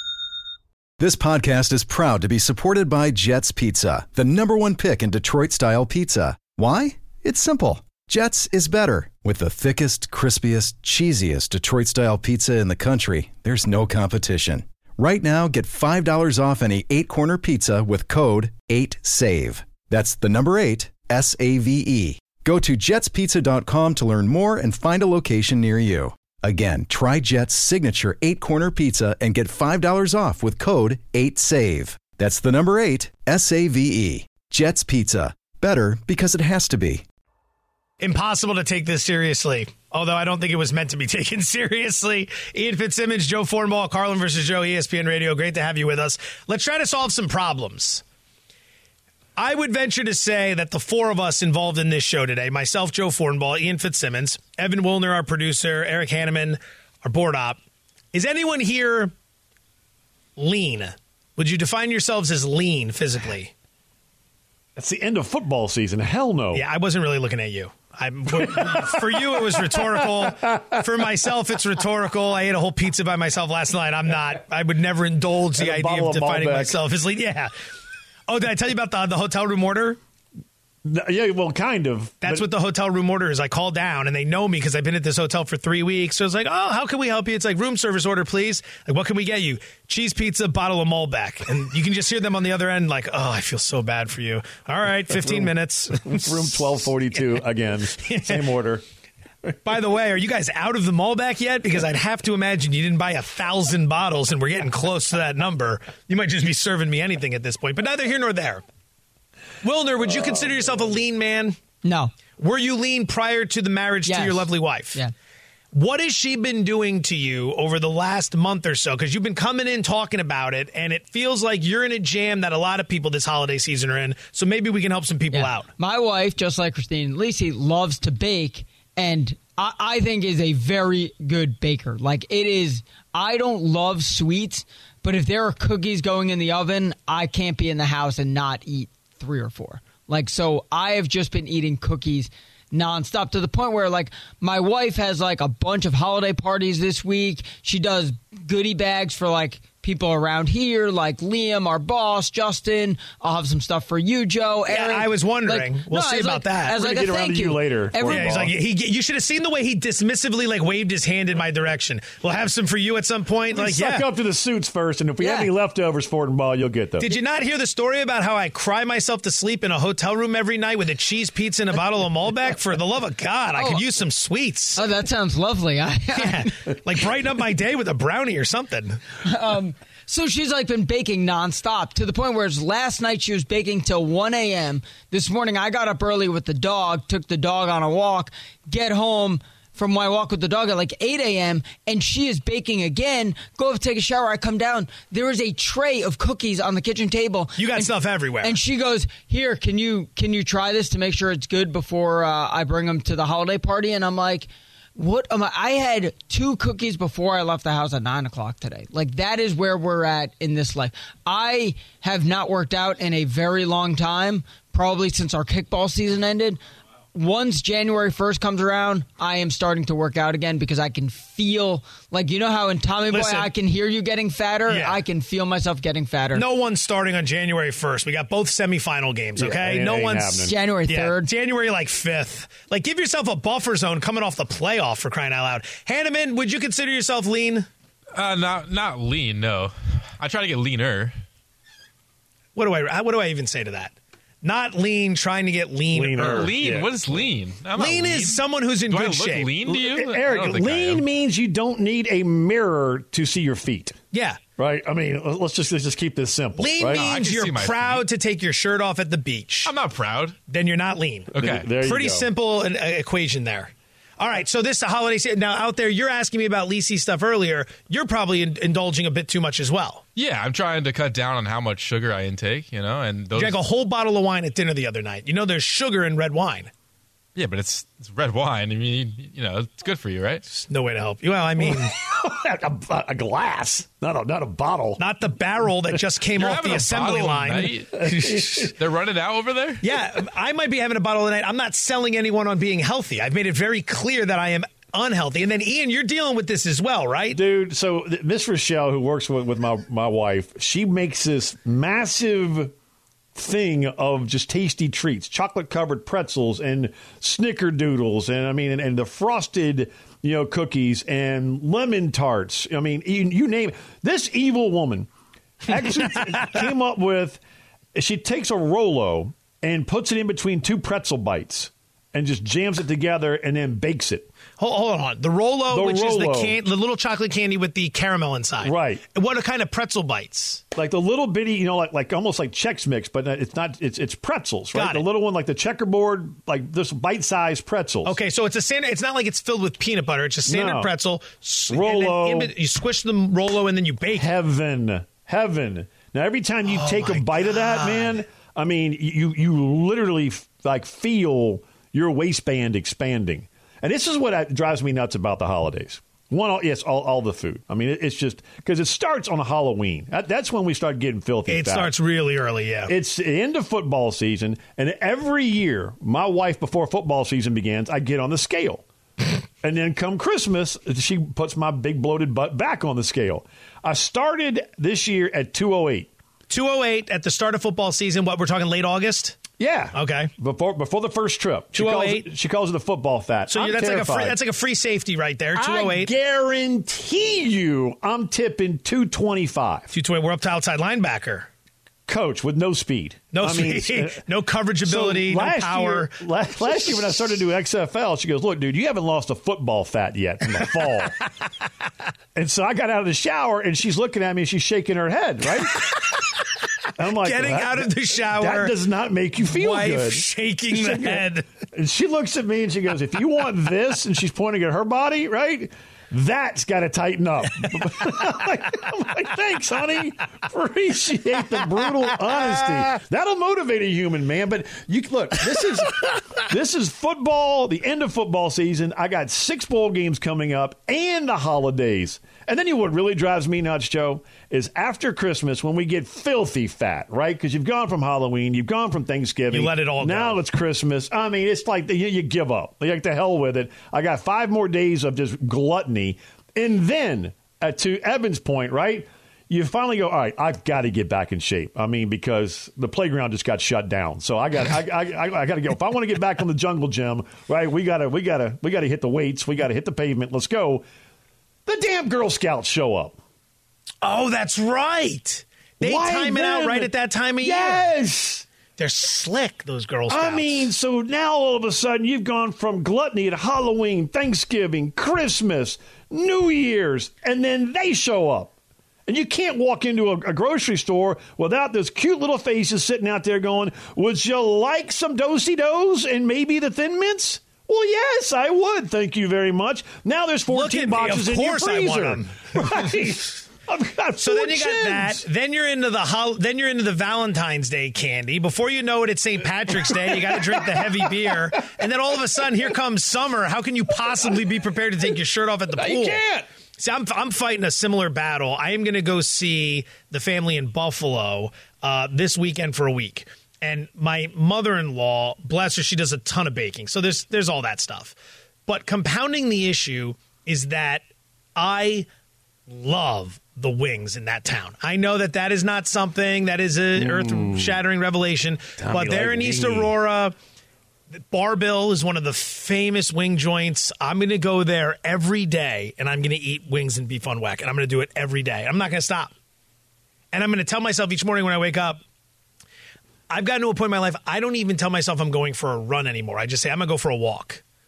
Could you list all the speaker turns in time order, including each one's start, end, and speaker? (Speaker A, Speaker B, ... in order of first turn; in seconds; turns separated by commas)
Speaker A: 1.0-37.0, Speaker B: 38.0-48.0, Speaker B: 49.4-57.6, Speaker B: 58.1-59.1, Speaker B: 60.4-63.5, Speaker C: 64.8-66.6, Speaker B: 66.5-77.5, Speaker C: 68.3-70.8, Speaker C: 75.5-76.8, Speaker B: 78.3-80.0, Speaker C: 80.8-82.5, Speaker B: 82.2-96.7, Speaker C: 95.1-98.8, Speaker B: 98.0-98.4, Speaker B: 99.7-108.6, Speaker B: 109.6-111.6, Speaker D: 111.8-112.1, Speaker B: 112.4-115.0, Speaker D: 114.0-115.1, Speaker B: 115.7-125.7, Speaker D: 125.3-158.5, Speaker B: 154.7-156.8, Speaker C: 156.8-158.5, Speaker B: 158.1-164.1, Speaker C: 163.5-167.1, Speaker D: 165.2-165.5, Speaker B: 167.0-174.8, Speaker D: 173.6-173.8, Speaker D: 174.8-176.5, Speaker B: 176.2-179.0, Speaker D: 179.3-216.6, Speaker B: 197.6-198.6, Speaker D: 217.1-226.4, Speaker B: 223.1-223.5, Speaker B: 224.7-225.0, Speaker B: 226.3-237.7, Speaker C: 229.4-230.6, Speaker D: 230.5-231.3, Speaker E: 238.2-241.2, Speaker B: 242.6-246.5, Speaker C: 245.9-247.0, Speaker E: 246.2-251.1, Speaker B: 247.8-249.5, Speaker C: 249.6-253.9, Speaker B: 254.1-254.4, Speaker C: 254.6-257.1, Speaker B: 256.6-259.7, Speaker E: 256.8-258.1, Speaker E: 259.6-260.4, Speaker B: 260.5-270.0, Speaker E: 261.3-261.7, Speaker C: 261.4-262.3, Speaker E: 270.1-273.6, Speaker B: 273.3-276.7, Speaker E: 277.4-280.4, Speaker B: 280.5-281.9, Speaker C: 281.6-285.0, Speaker B: 285.0-288.7, Speaker E: 286.3-289.8, Speaker C: 287.9-288.7, Speaker B: 289.8-297.4, Speaker C: 297.3-302.7, Speaker C: 303.4-315.1, Speaker C: 315.6-317.4, Speaker C: 317.9-324.3, Speaker B: 324.6-330.6, Speaker C: 325.7-326.6, Speaker C: 328.6-329.0, Speaker C: 330.7-338.2, Speaker B: 334.7-335.1, Speaker B: 338.1-344.3, Speaker C: 340.5-340.9, Speaker C: 341.7-342.5, Speaker C: 344.1-361.9, Speaker B: 346.7-348.2, Speaker B: 361.5-362.9, Speaker C: 362.9-368.9, Speaker C: 369.6-376.1, Speaker B: 376.5-379.4, Speaker C: 379.6-384.4, Speaker B: 379.9-380.3, Speaker B: 381.7-382.3, Speaker B: 383.5-386.1, Speaker C: 385.6-389.9, Speaker B: 389.9-391.5, Speaker C: 392.1-394.2, Speaker B: 393.3-397.1, Speaker C: 394.8-401.2, Speaker C: 402.4-405.9, Speaker B: 405.9-406.2, Speaker C: 407.0-460.9, Speaker B: 407.2-408.7, Speaker B: 409.4-411.5, Speaker B: 439.5-440.4, Speaker C: 461.7-463.2, Speaker B: 464.0-467.9, Speaker C: 465.8-468.5, Speaker B: 468.8-470.7, Speaker C: 470.1-478.5, Speaker C: 479.1-495.2, Speaker B: 490.5-492.9, Speaker B: 494.2-506.2, Speaker C: 499.7-501.6, Speaker C: 505.8-506.5, Speaker B: 506.8-518.2, Speaker B: 518.7-521.0, Speaker B: 521.6-522.1, Speaker B: 522.7-530.4, Speaker C: 527.0-527.8, Speaker C: 528.8-530.0, Speaker B: 531.1-539.3, Speaker B: 540.3-542.0, Speaker B: 543.3-547.6